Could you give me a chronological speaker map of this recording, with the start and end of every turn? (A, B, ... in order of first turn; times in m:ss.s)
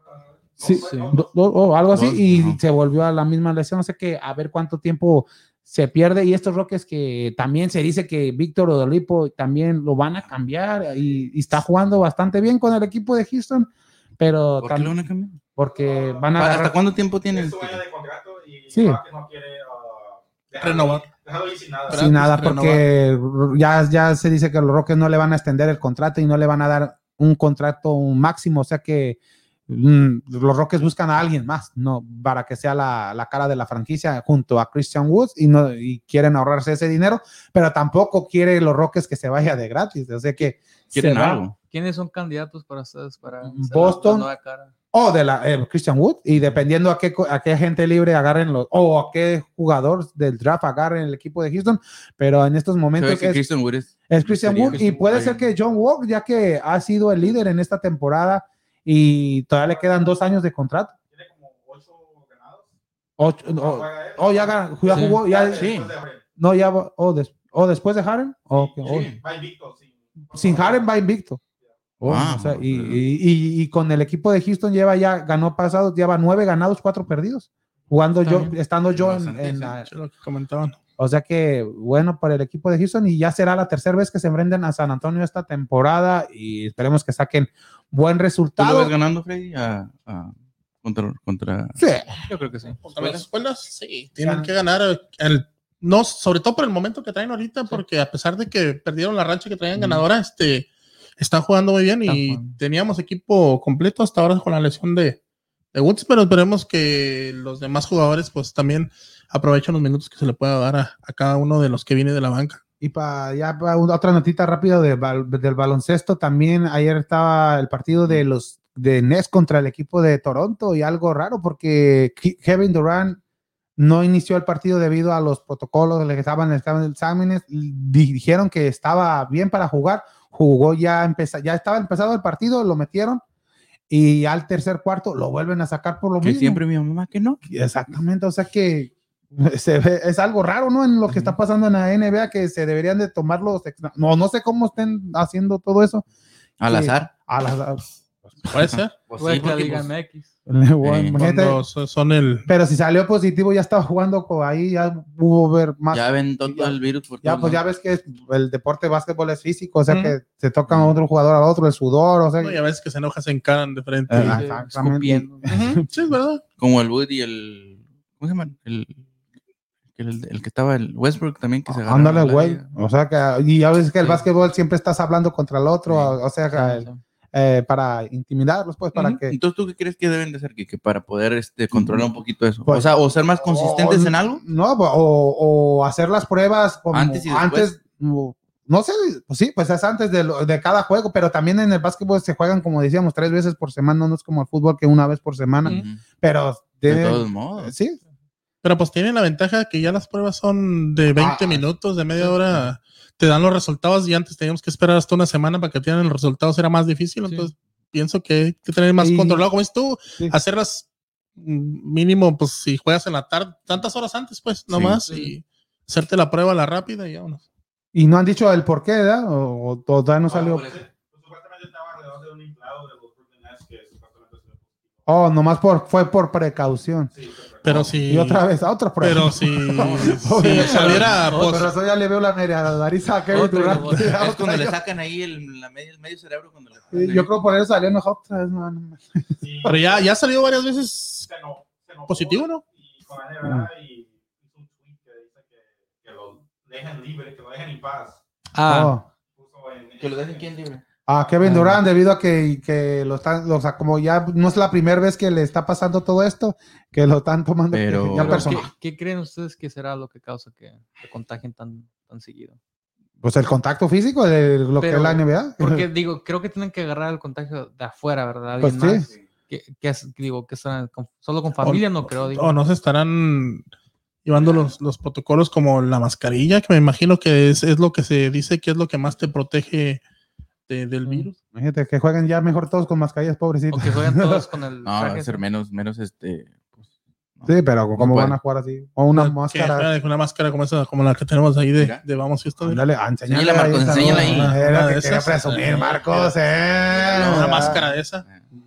0:00.2-0:01.3 A
0:00.6-0:14.9 B
0:01.9-0:02.6 C
0:14.6-0:15.4 C
0:15.6-0:16.7 B
0:15.8-0:16.3 A
0:16.4-0:17.8 C
0:17.3-0:22.1 A
0:18.7-0:19.0 B
0:20.6-0:21.1 D
0:21.9-0:22.9 D
0:21.9-0:41.4 B
0:40.9-0:41.6 C
0:41.7-0:44.7 E
0:43.4-0:44.3 B
0:44.9-0:53.4 B
0:53.0-0:55.5 C
0:54.1-1:01.0 B
0:54.7-0:55.0 E
1:01.0-1:02.7 A
1:03.2-1:05.7 B
1:03.4-1:06.2 A
1:04.9-1:05.2 E
1:05.6-1:05.9 C
1:06.4-1:09.1 B
1:08.5-1:10.9 A
1:08.8-1:09.2 C
1:10.3-1:11.4 B
1:12.0-1:19.9 B
1:12.0-1:13.0 C
1:18.2-1:18.5 E
1:19.0-1:19.4 C
1:19.3-1:20.8 D
1:21.0-1:28.9 B
1:28.6-1:31.8 C
1:31.8-1:32.2 B
1:32.3-1:32.8 E
1:32.8-1:45.2 D
1:32.9-1:33.2 C
1:34.2-1:34.5 B
1:39.8-1:40.0 E
1:42.0-1:42.6 E
1:45.7-1:52.6 D
1:52.8-2:03.2 B
2:03.8-2:13.2 B
2:13.9-2:16.6 B
2:16.2-2:17.4 C
2:17.4-2:26.0 B
2:26.6-2:27.1 C
2:26.7-2:28.5 B
2:28.5-2:28.9 D
2:28.6-2:29.9 C
2:29.2-2:30.3 E
2:30.5-2:31.6 B
2:30.8-2:31.2 C
2:31.1-2:32.5 D
2:32.5-2:42.6 B
2:35.9-2:37.6 C
2:39.9-2:40.2 D
2:42.4-2:44.4 D
2:44.1-2:45.8 B
2:44.1-2:45.4 E
2:45.4-2:46.4 D
2:46.6-2:49.0 C
2:49.9-2:52.6 C
2:51.7-2:59.4 B
2:55.9-2:56.2 C
2:56.5-2:57.0 E
2:58.9-3:04.4 C
3:01.7-3:02.1 B
3:03.4-3:18.0 B
3:06.9-3:07.7 C
3:15.6-3:16.0 C
3:16.8-3:17.7 C
3:18.6-3:37.4 D
3:21.2-3:21.6 B
3:27.2-3:27.5 E
3:29.0-3:29.4 B
3:34.7-3:35.0 C
3:35.1-3:35.3 E
3:37.9-3:40.7 B
3:40.3-3:45.0 A
3:40.3-3:40.8 C
3:45.1-3:47.1 B
3:47.1-3:47.9 A
3:47.6-3:48.4 D
3:48.0-3:54.8 B
3:49.0-3:51.7 D
3:49.8-3:51.1 C
3:51.0-3:51.7 E
3:53.3-3:54.1 E
3:54.0-3:57.3 C
3:56.9-3:59.3 B
3:59.4-4:00.1 A
3:59.6-4:01.3 D
4:01.2-4:08.2 A
4:02.1-4:02.6 D
4:08.5-4:09.0 E
4:08.6-4:09.0 B
4:09.3-4:10.5 A
4:10.0-4:10.8 C
4:11.1-4:18.7 B
4:11.4-4:11.8 E
4:17.7-4:18.6 C
4:18.1-4:22.6 E
4:23.2-4:25.9 B
4:24.8-4:32.5 E
4:28.6-4:29.1 B
4:31.6-4:33.6 D
4:34.2-4:40.0 D
4:40.7-4:41.4 D
4:41.5-4:44.4 B
4:43.7-4:45.4 E
4:44.8-4:46.6 C
4:47.4-4:48.4 C
4:47.4-4:49.9 B
4:49.1-4:52.8 D
4:52.6-4:57.8 B
4:53.3-4:54.5 C
4:53.9-4:56.3 D
4:57.0-4:58.2 D
4:57.0-4:58.4 C